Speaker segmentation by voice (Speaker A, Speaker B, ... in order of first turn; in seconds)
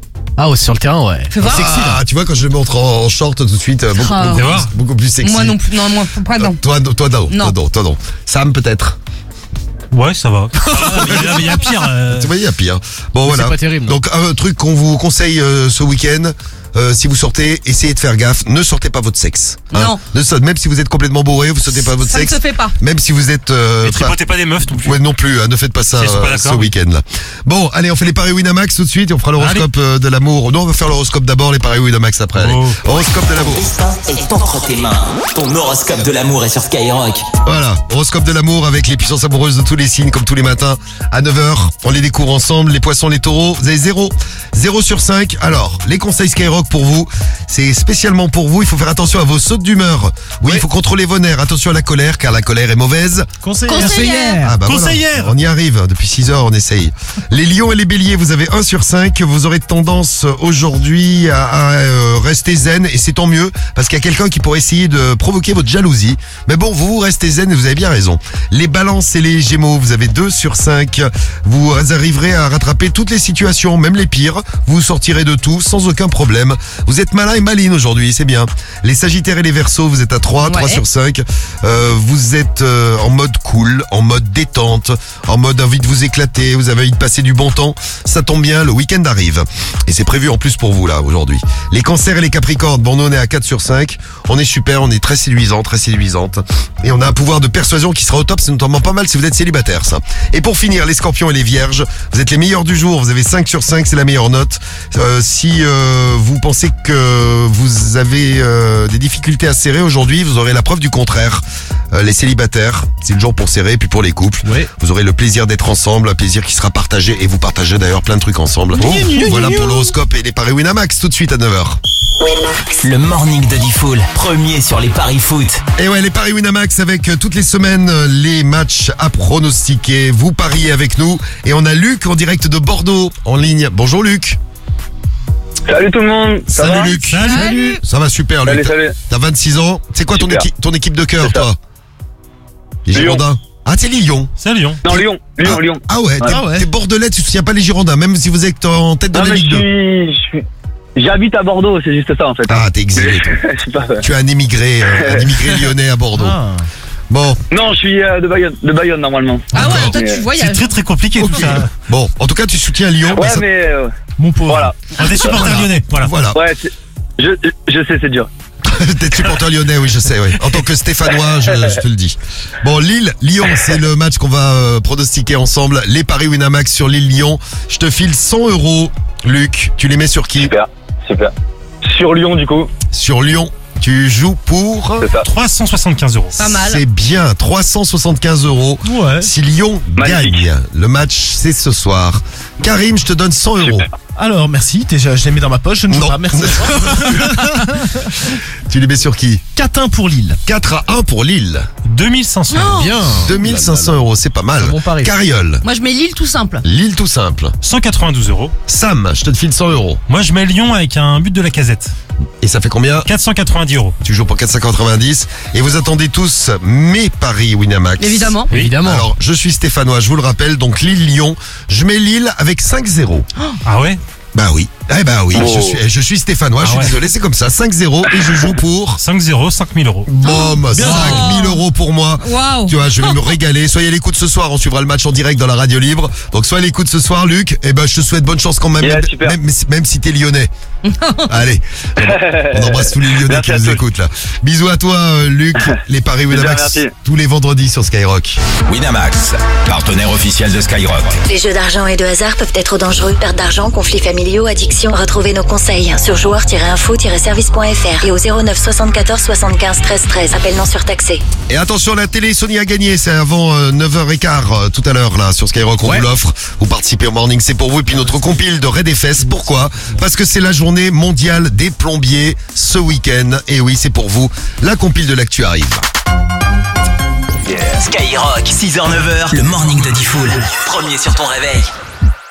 Speaker A: 0.4-1.3, 13.3-14.0, 218.5-219.1
Speaker B: 1.3-1.9, 4.0-4.6, 5.2-6.6, 7.3-7.5, 19.7-20.0, 21.7-22.8, 53.7-54.5, 80.4-80.8, 137.2-137.8, 159.5-160.7, 186.4-186.8, 202.5-202.9, 205.6-206.6, 218.0-218.5, 230.2-231.6, 232.2-233.3, 240.8-241.4
Speaker C: 1.4-5.7, 6.4-9.0, 10.9-11.4, 12.1-24.2, 24.8-33.7, 37.5-53.3, 54.4-121.8, 125.8-134.4, 136.5-141.6, 142.9-144.3, 144.9-149.7, 152.5-153.3, 154.0-156.4, 157.1-157.4, 159.6-160.0, 161.2-163.5, 165.3-166.4, 168.7-180.5, 182.9-185.1, 186.4-193.9, 195.9-197.4, 198.7-199.4, 200.5-201.7, 203.2-205.6, 206.6-207.6, 208.7-210.0, 212.4-213.1, 214.0-223.3, 224.3-229.0, 230.1-240.5, 241.3-248.4, 261.5-275.8
Speaker D: 4.3-4.7, 9.9-12.3, 23.8-25.0, 25.9-26.7, 29.4-29.7, 32.4-32.9, 54.7-55.3, 137.0-137.6, 144.4-144.8, 160.4-161.7, 165.0-166.1, 185.2-186.4, 201.9-202.8, 207.6-208.6, 210.1-211.9, 213.1-214.0, 223.7-224.0, 226.6-227.0, 229.0-230.1
Speaker E: 33.4-37.3, 122.8-125.6, 248.7-251.2, 277.5-281.7
Speaker F: 53.4-54.8, 114.4-114.7, 118.8-119.9, 146.2-146.7, 156.1-156.7, 164.2-164.7, 188.8-189.3, 194.2-197.9, 199.6-200.4, 202.8-203.9, 204.6-205.1, 230.8-231.3, 265.8-266.1
Speaker G: 135.7-137.0, 138.4-138.9, 140.1-140.5, 141.2-141.5, 142.9-143.2, 144.8-146.4, 149.1-150.4, 151.0-154.1, 154.9-155.3, 157.5-160.2, 163.1-163.9, 164.5-164.8, 166.3-168.3, 171.1-171.8, 180.4-181.3, 181.8-182.7, 185.0-185.2, 190.0-190.5, 225.4-225.7, 238.8-239.4, 242.0-243.8, 245.6-246.9
Speaker H: 251.2-261.2